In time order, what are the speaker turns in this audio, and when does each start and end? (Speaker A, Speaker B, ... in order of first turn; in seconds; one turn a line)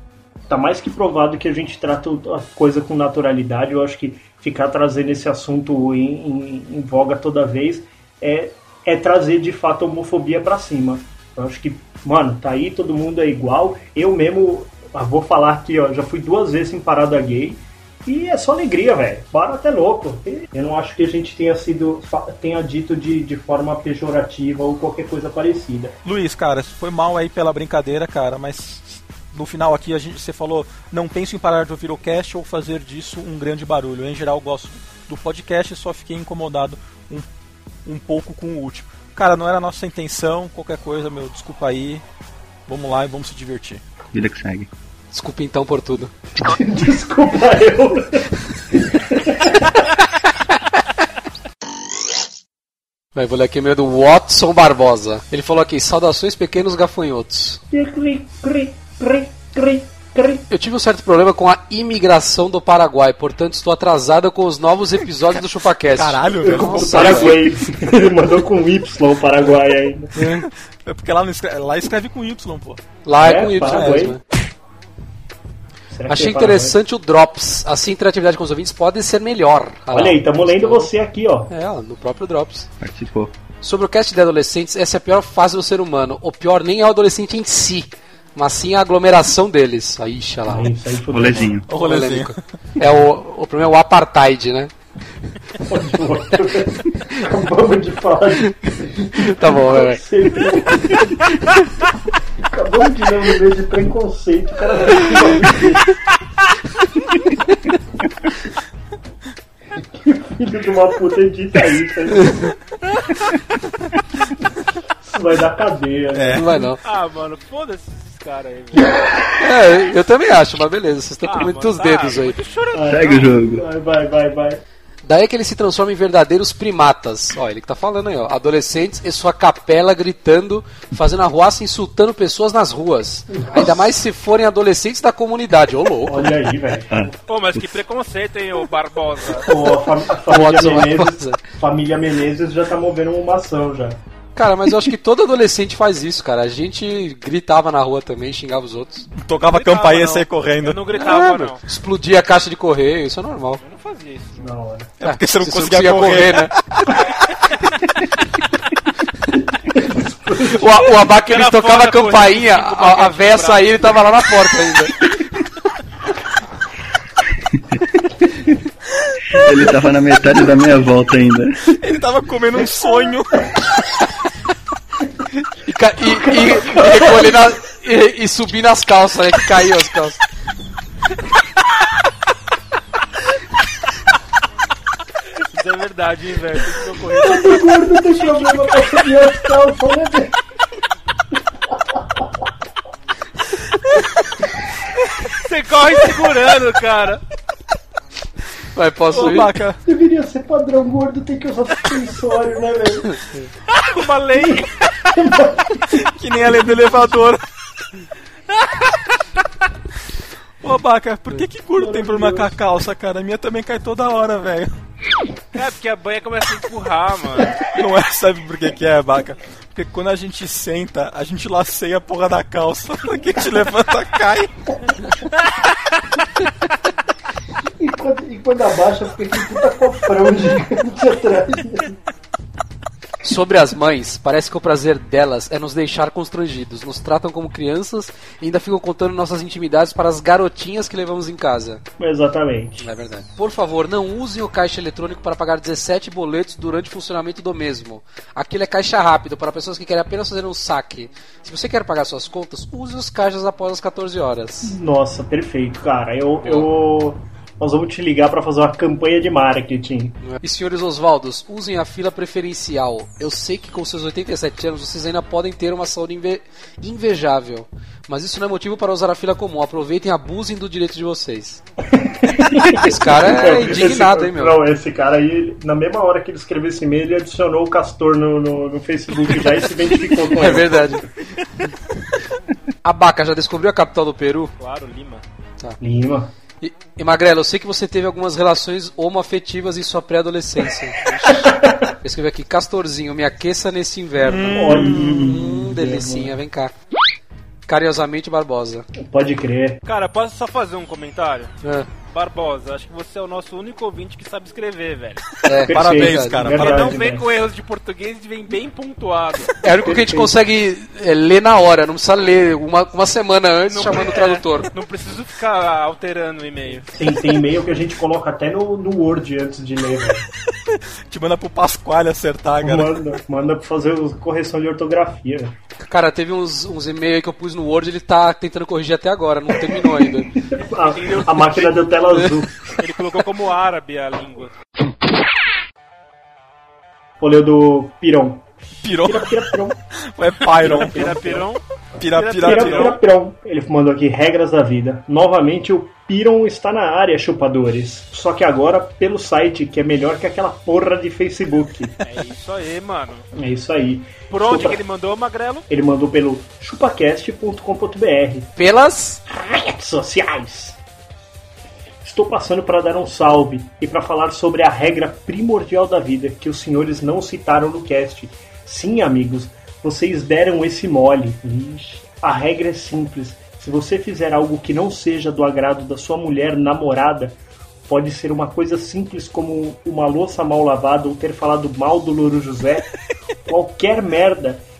Speaker A: 0.5-26.0
Speaker B: 26.1-37.3
Speaker B: 37.9-42.0
Speaker B: 42.7-43.8
Speaker C: 44.1-44.7
Speaker D: 45.1-46.1
Speaker A: 46.5-48.3
Speaker A: 48.9-49.9
Speaker D: 53.1-57.6
Speaker A: 57.7-60.5
Speaker D: 60.5-67.5
Speaker B: 65.9-67.6
Speaker A: 66.4-70.1
Speaker D: 70.2-70.5
Speaker B: 70.2-72.8
Speaker D: 73.0-74.2
Speaker A: 73.2-74.2
Speaker B: 73.7-74.0
Speaker A: 75.9-76.8
Speaker D: 76.1-80.9
Speaker A: 79.9-81.5
Speaker D: 81.5-82.7
Speaker C: 82.8-83.3
Speaker D: 83.6-90.7
Speaker A: 90.5-91.6
Speaker C: 91.1-91.7
Speaker B: 91.7-92.4
Speaker D: 91.7-94.7
Speaker A: 95.7-101.4
Speaker D: 99.1-100.0
Speaker A: 102.4-106.0
Speaker A: 109.8-112.5
Speaker A: 115.0-116.6
Speaker B: 116.1-116.6
Speaker D: 116.3-116.8
Speaker E: 116.8-119.0
Speaker D: 119.3-122.4
Speaker E: 121.2-123.3
Speaker A: 122.7-124.6
Speaker C: 122.9-123.7
Speaker D: 125.0-136.3
Speaker A: 133.3-133.9
Speaker A: 136.1-137.1
Speaker C: 136.9-137.6
Speaker E: 137.3-139.5
Speaker A: 139.4-144.0
Speaker D: 140.3-141.4
Speaker D: 144.3-149.1
Speaker B: 149.2-150.8
Speaker E: 149.4-151.6
Speaker D: 150.9-153.6
Speaker E: 153.6-154.6
Speaker A: 154.4-154.9
Speaker B: 155.0-157.1
Speaker D: 155.0-156.5
Speaker A: 159.7-160.9
Speaker D: 160.4-165.1
Speaker E: 161.1-163.8
Speaker C: 167.5-167.8
Speaker C: 169.3-171.8
Speaker B: 171.7-173.5
Speaker D: 175.7-180.2
Speaker A: 176.1-177.5
Speaker E: 185.5-187.9
Speaker A: 187.2-190.3
Speaker E: 195.3-197.2
Speaker D: 198.8-199.6
Speaker B: 199.1-199.8
Speaker A: 199.8-203.2
Speaker E: 203.7-205.1
Speaker A: 204.4-206.0
Speaker B: 205.9-207.4
Speaker B: 210.6-214.7
Speaker A: 211.8-212.5
Speaker E: 215.5-217.7
Speaker B: 217.7-224.5
Speaker A: 227.8-232.0
Speaker D: 233.2-241.8
Speaker A: 242.0-242.9
Speaker D: 242.8-254.8
Speaker A: 254.6-260.2
Speaker D: 256.4-256.7
Speaker D: 260.2-271.6
Speaker A: 271.9-281.1
Speaker D: 272.5-274.6
Speaker D: 280.3-281.1
Speaker D: 282.8-284.5
Speaker E: 284.6-285.2
Speaker A: 285.8-286.3
Speaker D: 286.6-291.0
Speaker E: 291.0-291.4
Speaker A: 291.3-291.8
Speaker D: 292.0-296.7
Speaker B: 294.2-295.6
Speaker A: 294.6-296.3
Speaker D: 297.7-298.9
Speaker A: 299.0-299.8
Speaker E: 299.9-301.5
Speaker D: 301.6-301.9
Speaker E: 302.1-305.4
Speaker D: 305.4-306.5
Speaker A: 305.6-307.2
Speaker B: 305.7-307.0
Speaker E: 306.5-309.5
Speaker D: 309.6-314.7
Speaker A: 309.8-310.3
Speaker E: 313.7-316.9
Speaker A: 316.9-320.3
Speaker B: 320.6-323.0
Speaker A: 322.6-325.5
Speaker D: 325.8-330.3
Speaker A: 330.5-332.8
Speaker E: 330.6-331.9
Speaker E: 332.8-334.5
Speaker A: 337.2-338.4
Speaker B: 338.8-339.5
Speaker A: 339.0-339.8
Speaker B: 340.1-341.1
Speaker A: 340.5-341.5
Speaker E: 340.6-343.0
Speaker B: 342.0-343.0
Speaker A: 342.4-352.0
Speaker E: 352.0-353.3
Speaker A: 353.3-354.8
Speaker E: 354.3-355.7
Speaker A: 355.7-358.5
Speaker D: 358.6-359.2
Speaker A: 359.3-360.8
Speaker A: 362.0-382.9
Speaker A: 383.5-384.6